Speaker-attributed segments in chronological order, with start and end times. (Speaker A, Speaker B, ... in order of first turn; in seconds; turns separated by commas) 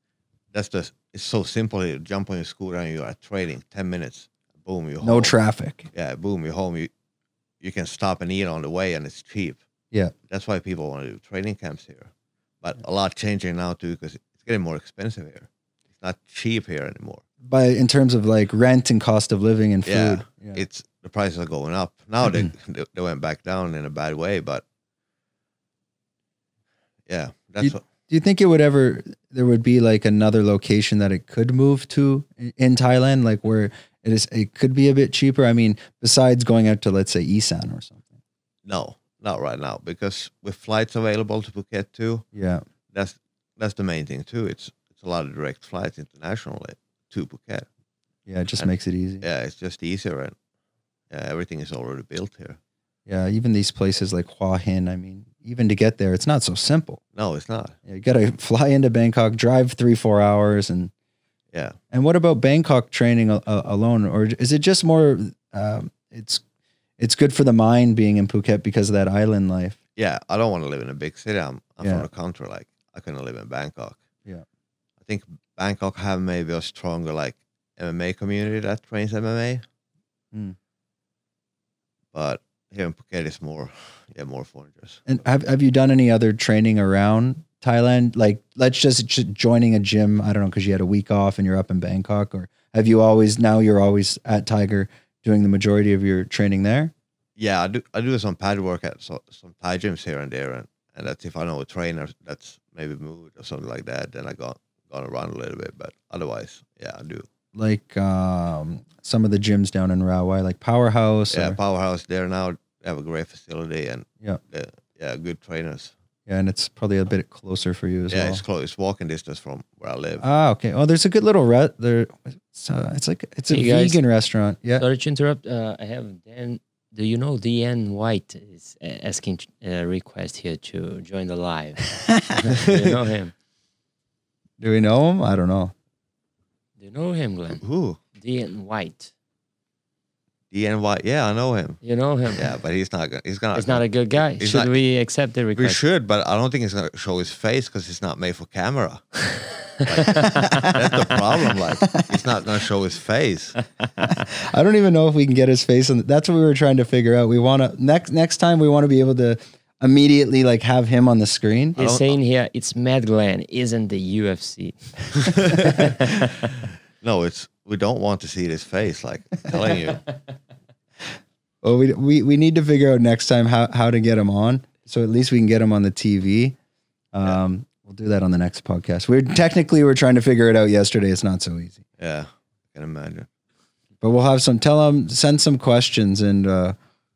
Speaker A: 0.5-5.3, Speaker B: 5.0-5.9, Speaker A: 5.9-6.9, Speaker A: 7.6-9.6, Speaker A: 10.3-12.1, Speaker A: 12.6-17.2, Speaker B: 17.4-20.6, Speaker A: 19.9-24.6, Speaker A: 27.1-27.8, Speaker B: 27.6-38.1, Speaker A: 38.6-42.2, Speaker B: 42.3-42.6, Speaker A: 42.9-47.7, Speaker B: 48.3-49.2, Speaker A: 49.2-50.3, Speaker A: 51.1-52.6, Speaker B: 53.1-57.0, Speaker A: 57.1-57.8, Speaker B: 57.9-60.9, Speaker A: 61.5-61.8, Speaker B: 61.9-66.4, Speaker B: 67.0-69.8, Speaker A: 70.0-74.0, Speaker A: 75.0-79.6, Speaker A: 82.1-85.0, Speaker B: 85.0-96.9, Speaker A: 97.4-107.2, Speaker B: 107.5-111.6, Speaker A: 111.3-115.9, Speaker B: 116.3-118.4, Speaker A: 118.1-120.2, Speaker B: 120.2-124.8, Speaker C: 123.5-124.0, Speaker C: 124.8-133.3, Speaker A: 132.5-133.0, Speaker B: 134.6-135.7, Speaker C: 136.8-137.6, Speaker A: 137.6-138.0, Speaker C: 138.2-139.1, Speaker A: 140.5-141.8, Speaker C: 141.8-142.5, Speaker A: 142.3-144.7, Speaker C: 143.5-145.8, Speaker A: 145.5-153.6, Speaker C: 149.9-150.7, Speaker B: 150.0-150.8, Speaker B: 151.8-152.2, Speaker C: 153.8-154.1, Speaker B: 154.0-161.8, Speaker A: 161.8-162.2, Speaker C: 161.8-166.5, Speaker A: 165.2-166.5, Speaker A: 167.0-170.0, Speaker B: 171.6-176.6, Speaker B: 177.1-181.8, Speaker A: 182.0-183.3, Speaker B: 184.0-186.8